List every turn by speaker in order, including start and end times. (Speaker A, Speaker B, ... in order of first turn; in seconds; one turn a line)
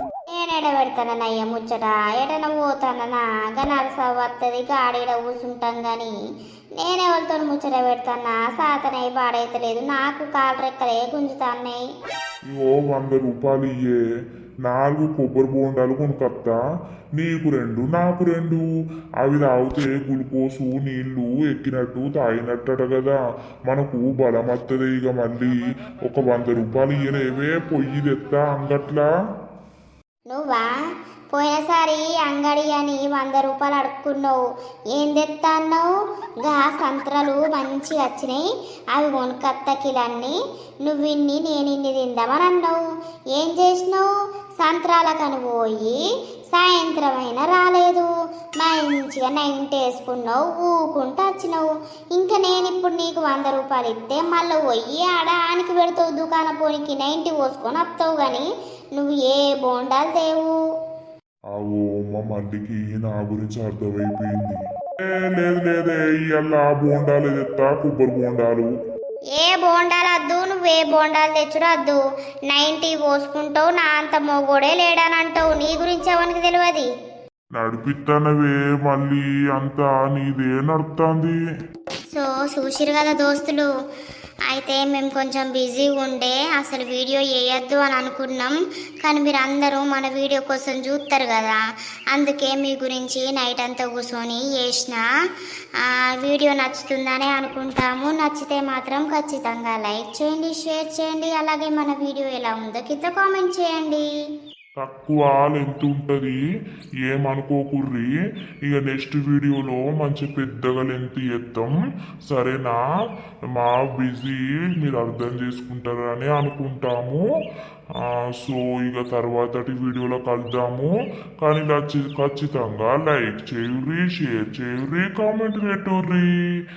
Speaker A: 0.3-6.1
Speaker A: 6.8-11.8
Speaker B: 12.5-14.0
Speaker B: 14.6-16.6
Speaker B: 17.2-18.6
Speaker B: 19.2-29.1
Speaker A: 30.3-30.7
Speaker A: 31.3-34.4
Speaker A: 34.9-35.9
Speaker A: 36.4-38.4
Speaker A: 38.9-42.8
Speaker A: 43.4-44.1
Speaker A: 44.6-46.0
Speaker A: 46.5-48.1
Speaker A: 48.6-60.5
Speaker B: 61.5-68.7
Speaker A: 69.3-72.0
Speaker A: 72.5-76.9
Speaker B: 77.6-81.3
Speaker A: 82.1-83.7
Speaker A: 84.5-91.6
Speaker A: 92.1-95.0
Speaker A: 95.8-104.1
Speaker B: 104.8-106.4
Speaker B: 107.1-108.1
Speaker B: 108.7-111.7
Speaker B: 112.3-112.8
Speaker B: 113.5-117.2
Speaker B: 118.0-126.3